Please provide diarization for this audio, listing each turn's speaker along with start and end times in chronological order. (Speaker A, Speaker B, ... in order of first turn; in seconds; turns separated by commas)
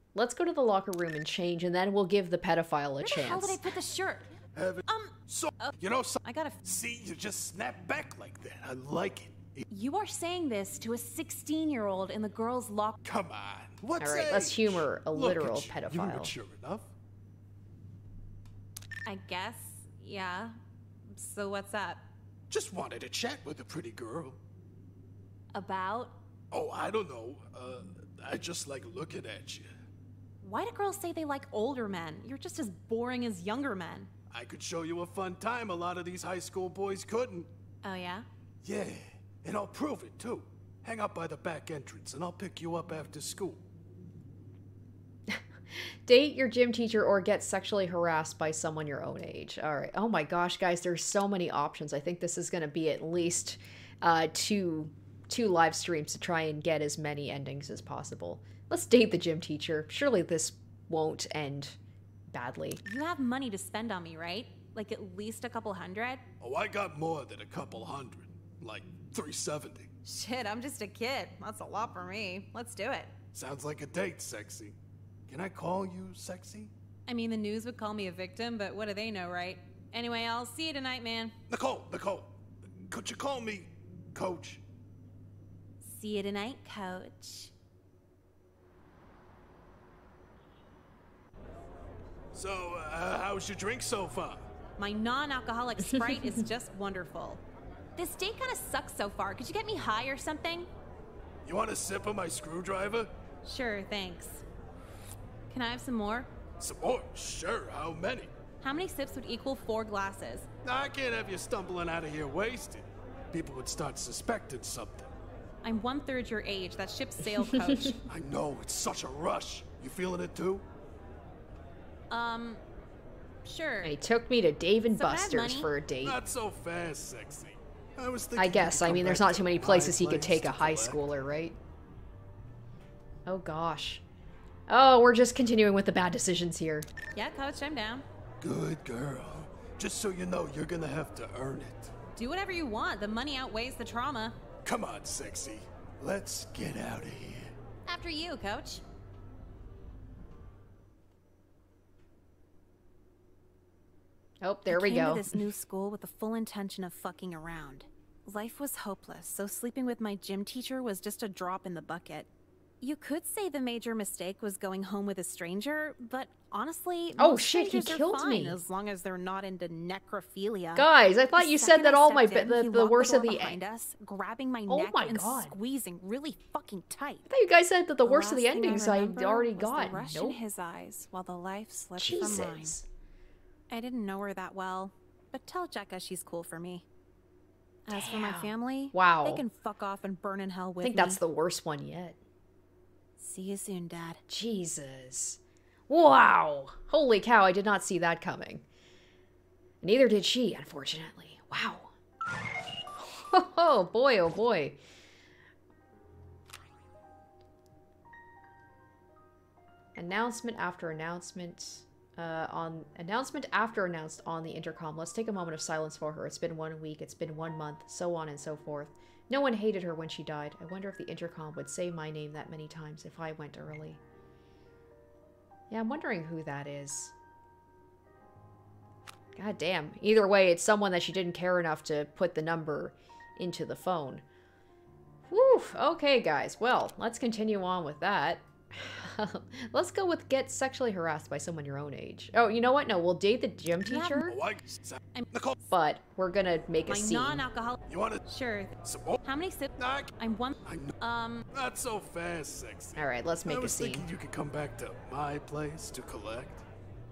Speaker A: 0.1-3.6, Speaker B: 3.0-4.3, Speaker C: 4.5-9.7, Speaker B: 4.9-6.6, Speaker B: 9.7-13.0, Speaker C: 13.0-16.9, Speaker A: 14.0-16.3, Speaker B: 19.1-20.6, Speaker B: 21.1-22.0, Speaker C: 22.5-24.4, Speaker B: 25.5-26.2, Speaker C: 26.5-29.7, Speaker B: 30.4-34.1, Speaker C: 34.3-37.5, Speaker B: 37.8-38.3, Speaker C: 38.6-43.6, Speaker A: 45.3-61.8, Speaker A: 62.3-62.8, Speaker B: 62.8-66.2, Speaker C: 66.4-69.9, Speaker B: 70.0-73.1, Speaker C: 73.3-74.8, Speaker C: 75.3-76.7, Speaker B: 77.1-81.3, Speaker C: 81.5-82.3, Speaker C: 82.9-84.6, Speaker B: 85.8-87.5, Speaker C: 92.3-94.5, Speaker B: 94.8-97.4, Speaker A: 95.8-96.5, Speaker B: 98.0-100.7, Speaker C: 101.5-103.1, Speaker B: 103.4-104.4, Speaker B: 105.5-106.3, Speaker C: 106.6-108.3, Speaker B: 108.6-110.5, Speaker C: 110.6-115.1, Speaker B: 115.6-118.0, Speaker A: 117.2-118.0, Speaker C: 118.1-120.6, Speaker B: 122.1-122.6, Speaker B: 123.5-124.0, Speaker A: 123.8-126.2, Speaker B: 124.9-125.7, Speaker C: 126.0-131.0, Speaker A: 128.4-131.6, Speaker A: 133.3-134.0, Speaker A: 134.7-136.9, Speaker B: 137.2-138.1, Speaker C: 138.4-141.9, Speaker B: 142.2-144.4, Speaker C: 144.6-147.5, Speaker B: 147.9-148.8, Speaker A: 154.4-155.4, Speaker B: 154.7-162.3, Speaker B: 162.8-177.3, Speaker A: 167.2-168.6, Speaker A: 170.8-173.6, Speaker A: 174.7-175.6, Speaker A: 177.3-180.4, Speaker B: 178.0-182.8, Speaker A: 182.0-182.9, Speaker B: 183.7-186.8, Speaker B: 187.9-191.2, Speaker A: 187.9-189.4, Speaker A: 190.8-192.2, Speaker B: 193.2-194.2, Speaker A: 194.3-198.7, Speaker A: 199.8-201.9, Speaker A: 202.9-204.8, Speaker A: 210.0-224.0, Speaker A: 225.7-227.1, Speaker A: 229.4-234.2, Speaker A: 235.3-244.4, Speaker B: 243.9-244.3, Speaker C: 244.2-245.6, Speaker A: 245.7-247.5, Speaker B: 246.9-251.5, Speaker C: 247.9-248.2, Speaker C: 248.8-249.2, Speaker C: 249.8-250.1, Speaker C: 250.7-250.9, Speaker C: 251.5-256.6, Speaker A: 253.0-254.1